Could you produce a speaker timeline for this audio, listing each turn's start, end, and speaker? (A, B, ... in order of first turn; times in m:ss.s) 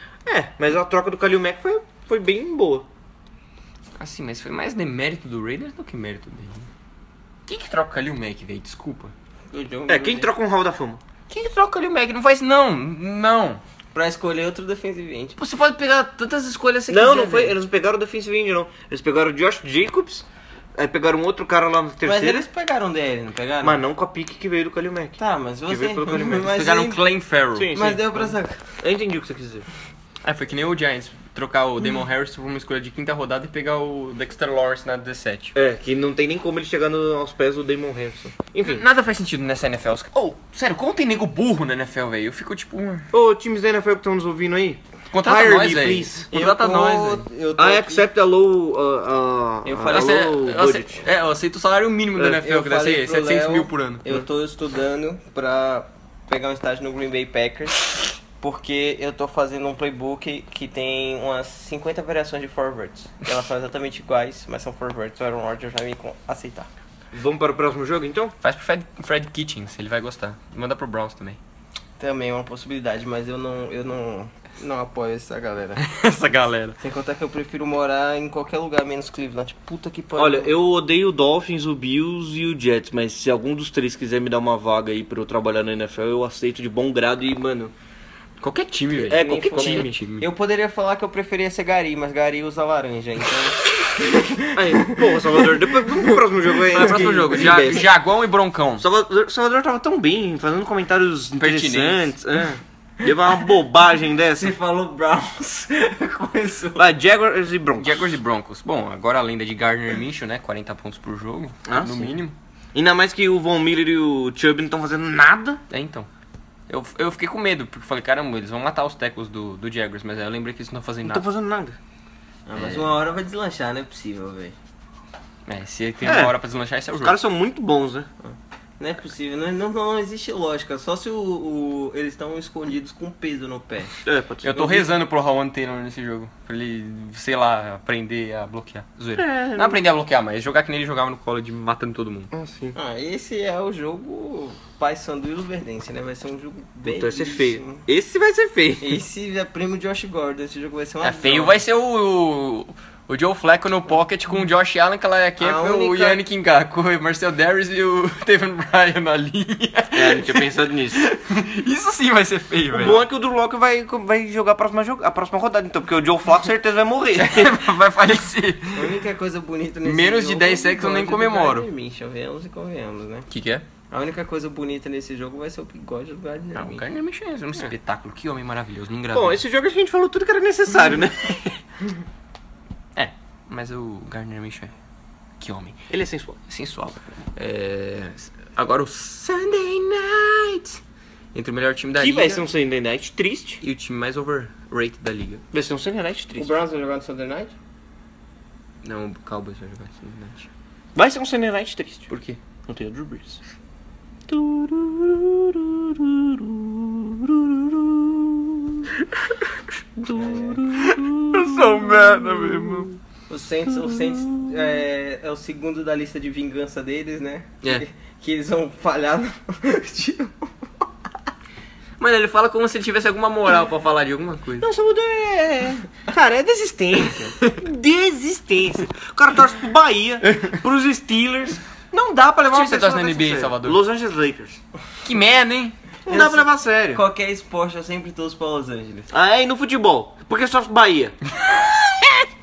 0:00.2-0:02.8 A
0:04.0-0:06.7 B
0:07.5-0:09.1 B
0:09.5-0:10.3 C
0:09.9-0:11.0 A
0:11.3-0:13.6 B
0:13.9-0:15.4 C
0:15.4-0:17.5 B
0:16.9-0:22.4 A
0:22.0-0:23.8 C
0:23.6-0:26.5 A
0:25.2-0:27.1 C
0:26.3-0:28.0 B
0:27.5-0:28.2 A
0:27.7-0:28.6 C
0:28.8-0:29.7 A
0:30.2-0:35.5 B
0:35.5-0:38.8 A
0:38.6-0:43.1 B
0:43.1-0:46.2 A
0:45.1-0:47.3 B
0:46.3-0:48.0 C
0:47.6-0:51.0 A
0:49.6-0:50.3 C
0:49.9-0:54.1 B
0:52.2-1:06.7 C
1:07.1-1:08.3 A
1:08.4-1:11.4 B
1:12.0-1:15.8 C
1:15.8-1:16.8 B
1:16.8-1:20.5 C
1:20.2-1:27.7 A
1:28.4-1:30.3 B
1:29.0-1:29.9 A
1:29.0-1:35.5 C
1:34.5-1:37.9 A
1:36.7-1:38.8 B
1:36.7-1:37.4 C
1:38.8-1:44.5 A
1:41.4-1:42.1 B
1:44.3-1:46.8 C
1:46.8-1:48.0 A
1:47.8-1:52.3 B
1:51.7-1:52.2 A
1:52.7-1:55.6 A
1:55.7-1:56.1 B
1:56.7-2:01.2 B
2:01.0-2:01.8 A
2:02.5-2:04.6 C
2:05.4-2:07.2 B
2:06.0-2:06.3 A
2:07.0-2:08.1 A
2:08.2-2:14.0 C
2:14.0-2:14.9 A
2:14.4-2:22.3 B
2:19.2-2:19.8 A
2:22.3-2:22.8 A
2:22.7-2:27.8 C
2:26.9-2:29.0 A
2:28.8-2:31.6 C
2:31.0-2:43.0 B
2:35.4-2:36.2 C
2:39.9-2:41.0 A
2:42.7-2:47.7 A
2:47.2-2:49.0 B
2:48.7-2:53.3 C
2:49.8-2:51.7 B
2:53.3-2:53.6 B
2:53.9-2:56.8 C
2:56.5-2:59.4 B
2:59.1-3:01.6 A
3:03.0-3:04.7 B
3:05.4-3:05.8 B
3:05.9-3:06.4 A
3:06.5-3:10.8 B
3:11.3-3:12.4 B
3:12.0-3:13.6 A
3:13.6-3:15.4 B
3:15.5-3:16.5 A
3:16.4-3:17.5 C
3:18.8-3:20.5 B
3:21.0-3:22.1 A
3:22.1-3:22.4 B
3:22.7-3:23.4 A
3:24.3-3:28.9 A
3:30.0-3:32.9 A
3:30.1-3:30.6 C
3:30.7-3:32.9 B
3:33.3-3:40.5 C
3:42.0-3:44.7 B
3:44.6-3:54.6 A
3:52.5-3:53.8 B
3:55.0-3:55.8 B
3:56.0-3:57.0 A
3:56.1-3:59.1 C
3:59.1-4:01.2 A
4:01.5-4:02.2 B